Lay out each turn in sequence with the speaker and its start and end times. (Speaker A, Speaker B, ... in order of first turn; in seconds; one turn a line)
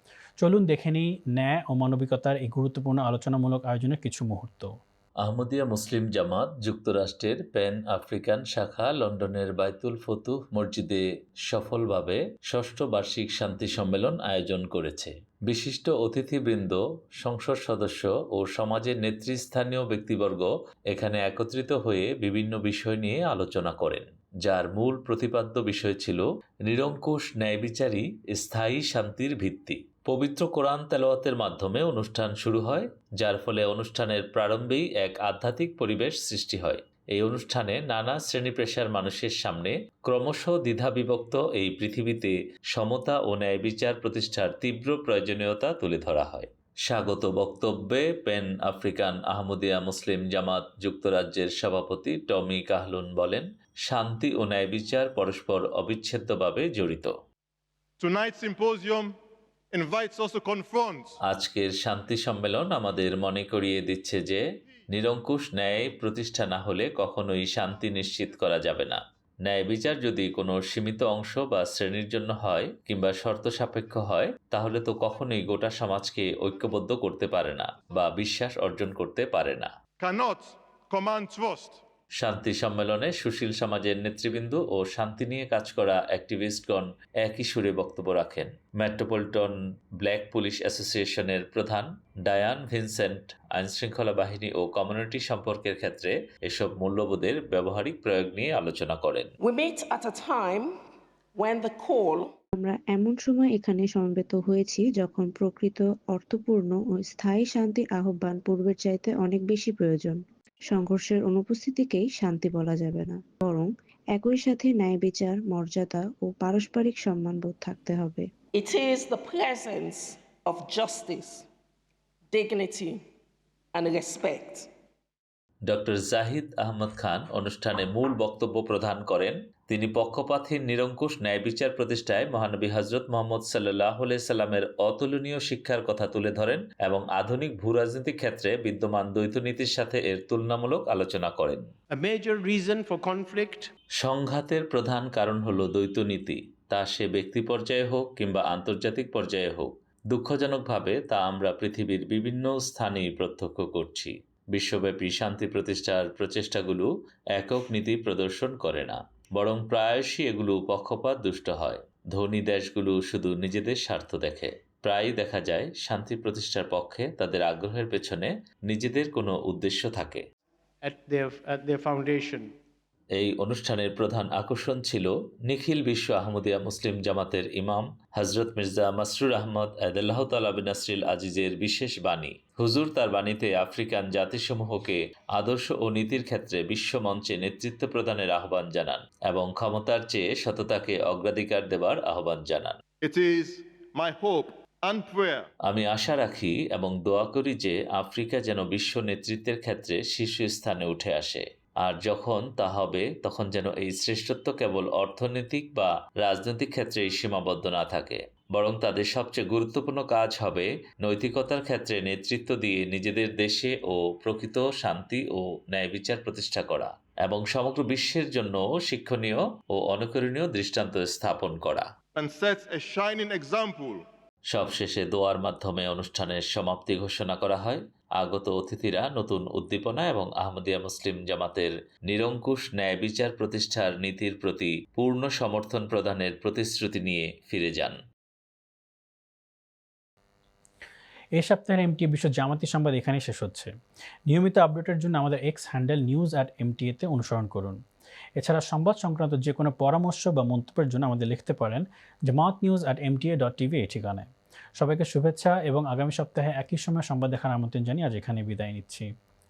Speaker A: 0.4-4.7
Speaker B: 5.2-57.1
Speaker C: 58.0-59.1
Speaker C: 59.8-61.1
Speaker B: 61.3-79.7
Speaker C: 80.0-81.8
Speaker B: 82.2-99.3
Speaker D: 99.4-100.8
Speaker D: 101.3-102.3
Speaker E: 102.5-118.3
Speaker D: 118.5-121.5
Speaker D: 122.3-123.0
Speaker D: 123.7-124.7
Speaker B: 125.7-141.6
Speaker F: 142.5-143.6
Speaker B: 144.0-170.2
Speaker F: 171.1-172.2
Speaker B: 173.2-192.8
Speaker C: 193.0-195.5
Speaker B: 195.7-221.9
Speaker C: 222.2-224.1
Speaker B: 224.5-238.0
Speaker A: 241.3-243.7
Speaker A: 244.3-247.8
Speaker A: 248.4-259.1